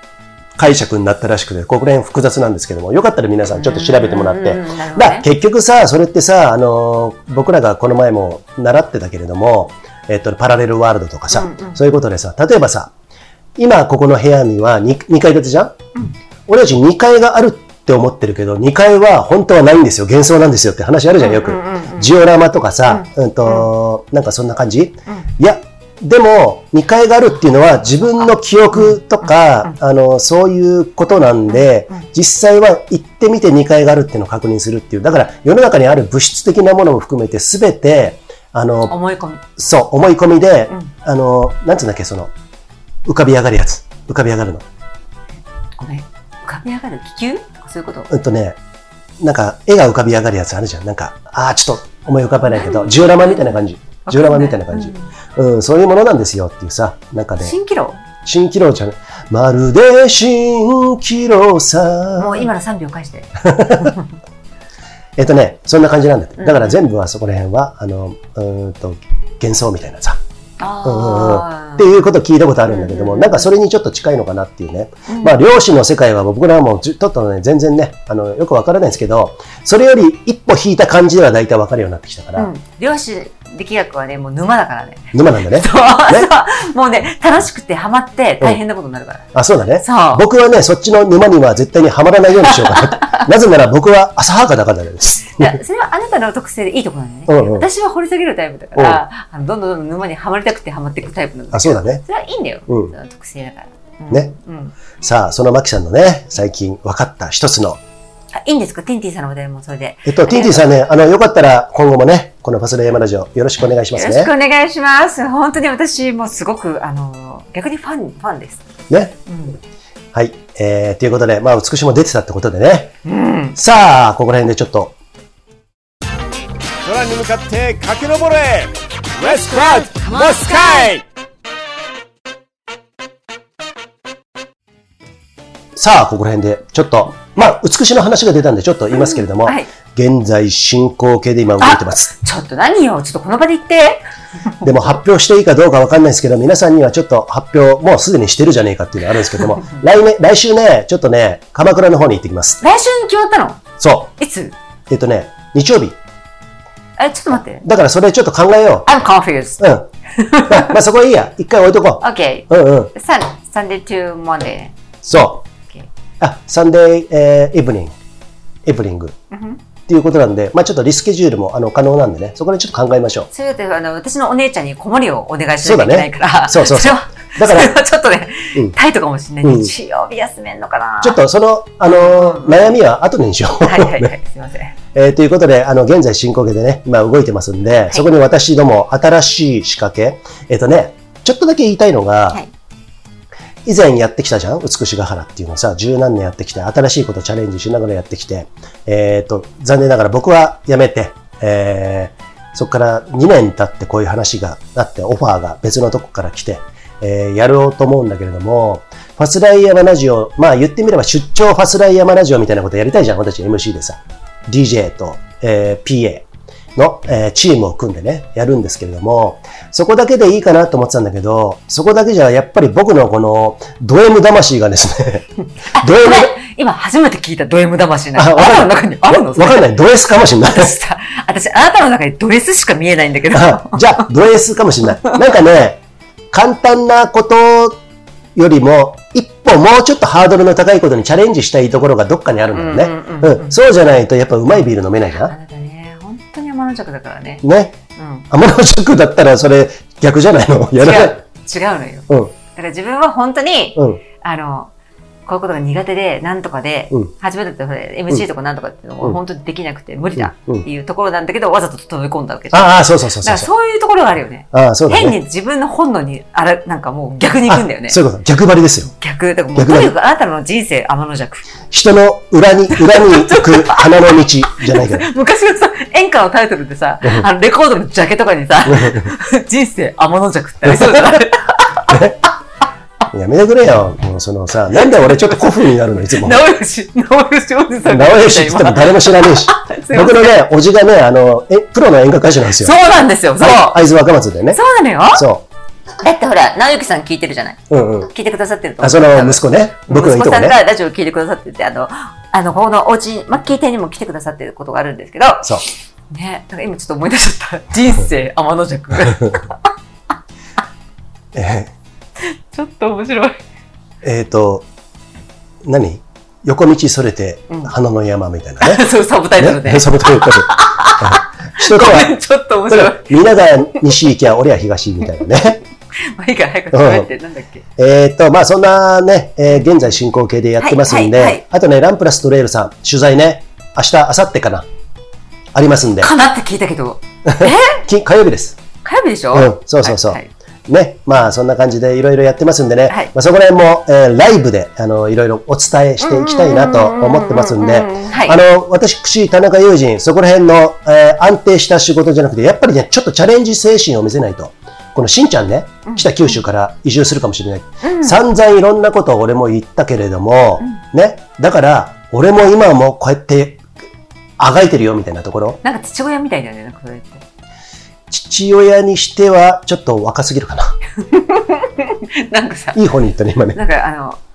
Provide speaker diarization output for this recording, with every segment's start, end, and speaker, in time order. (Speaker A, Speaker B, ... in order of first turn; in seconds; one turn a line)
Speaker A: 0.6-12.9
Speaker B: 3.5-5.3
Speaker B: 11.3-11.8
Speaker A: 13.6-15.7
Speaker A: 16.5-39.0
Speaker B: 21.2-22.1
Speaker B: 22.9-23.7
Speaker B: 38.9-39.4
Speaker A: 39.6-42.3
Speaker A: 43.0-44.6
Speaker B: 45.8-48.1
Speaker A: 48.1-48.6
Speaker A: 49.2-57.5
Speaker B: 52.5-53.5
Speaker B: 54.0-55.1
Speaker B: 57.4-58.0
Speaker A: 58.2-62.5
Speaker B: 62.1-64.0
Speaker A: 63.4-63.9
Speaker A: 65.2-70.2
Speaker B: 66.4-66.8
Speaker B: 70.6-71.9
Speaker A: 70.8-82.5
Speaker B: 72.7-73.5
Speaker B: 75.1-75.4
Speaker B: 82.3-89.2
Speaker A: 85.1-86.3
Speaker A: 89.3-95.6
Speaker B: 89.8-90.2
Speaker B: 92.6-93.2
Speaker B: 95.4-104.7
Speaker A: 97.3-97.7
Speaker A: 98.8-99.0
Speaker A: 101.5-102.0
Speaker A: 102.7-102.9
Speaker A: 105.0-107.8
Speaker B: 108.3-110.7
Speaker A: 110.0-114.3
Speaker B: 113.9-118.6
Speaker A: 118.9-119.2
Speaker B: 119.3-119.6
Speaker A: 120.1-122.9
Speaker B: 123.0-123.6
Speaker A: 123.5-124.9
Speaker C: 126.8-131.0
Speaker A: 135.8-142.1
Speaker B: 139.0-139.7
Speaker B: 141.6-144.0
Speaker A: 144.6-152.6
Speaker B: 152.6-153.6
Speaker A: 153.8-154.1
Speaker B: 154.2-154.5
Speaker A: 154.9-156.0
Speaker B: 157.0-157.6
Speaker A: 157.6-158.9
Speaker B: 158.8-160.7
Speaker A: 159.6-159.9
Speaker A: 160.5-162.9
Speaker B: 162.0-164.7
Speaker A: 165.0-165.4
Speaker A: 166.2-167.9
Speaker A: 168.6-169.2
Speaker B: 169.3-169.6
Speaker A: 169.9-173.3
Speaker B: 173.3-181.2
Speaker A: 175.6-177.7
Speaker A: 179.4-179.7
Speaker A: 181.0-184.1
Speaker B: 181.8-182.7
Speaker B: 183.6-184.7
Speaker A: 184.9-192.4
Speaker A: 193.6-225.3
Speaker B: 225.7-229.7
Speaker A: 225.8-226.3
Speaker A: 228.2-230.8
Speaker B: 230.4-234.1
Speaker A: 233.3-235.8
Speaker A: 236.3-237.8
Speaker A: 238.3-245.3
Speaker B: 242.5-243.6
Speaker B: 245.2-247.4
Speaker A: 247.4-247.8
Speaker B: 247.9-248.3
Speaker A: 248.3-251.2
Speaker B: 250.8-254.7
Speaker A: 253.8-254.0
Speaker B: 255.2-268.0
Speaker A: 260.1-260.6
Speaker A: 262.5-263.5
Speaker A: 264.5-265.2
Speaker A: 267.5-268.9
Speaker B: 268.9-271.5
Speaker A: 269.5-269.9
Speaker A: 271.7-275.1
Speaker B: 272.8-273.9
Speaker B: 274.6-282.1
Speaker A: 278.7-279.1
Speaker A: 280.6-281.0
Speaker A: 281.9-282.2
Speaker A: 283.1-286.4
Speaker B: 284.8-290.3
Speaker A: 287.9-292.8
Speaker B: 292.6-293.8
Speaker A: 293.4-294.6
Speaker B: 294.5-295.2
Speaker A: 295.1-295.4
Speaker B: 296.0-309.6
Speaker A: 297.7-298.1
Speaker A: 298.8-300.6
Speaker A: 309.0-309.3
Speaker A: 311.3-311.7
Speaker B: 312.2-313.4
Speaker A: 314.0-314.7
Speaker A: 315.6-318.9
Speaker B: 318.6-323.1
Speaker A: 319.4-322.1
Speaker A: 322.7-325.6
Speaker B: 326.0-327.6
Speaker A: 326.7-327.1
Speaker A: 327.8-334.7
Speaker B: 330.6-331.4
Speaker A: 335.5-336.1
Speaker B: 336.0-337.8
Speaker A: 337.2-338.6
Speaker B: 338.8-340.3
Speaker A: 339.3-363.6
Speaker B: 346.0-348.4
Speaker B: 355.9-356.4
Speaker B: 357.8-358.2
Speaker A: 364.4-365.6
Speaker B: 365.6-367.2
Speaker A: 368.1-370.7
Speaker B: 371.0-372.8
Speaker A: 372.7-373.6
Speaker B: 373.5-374.2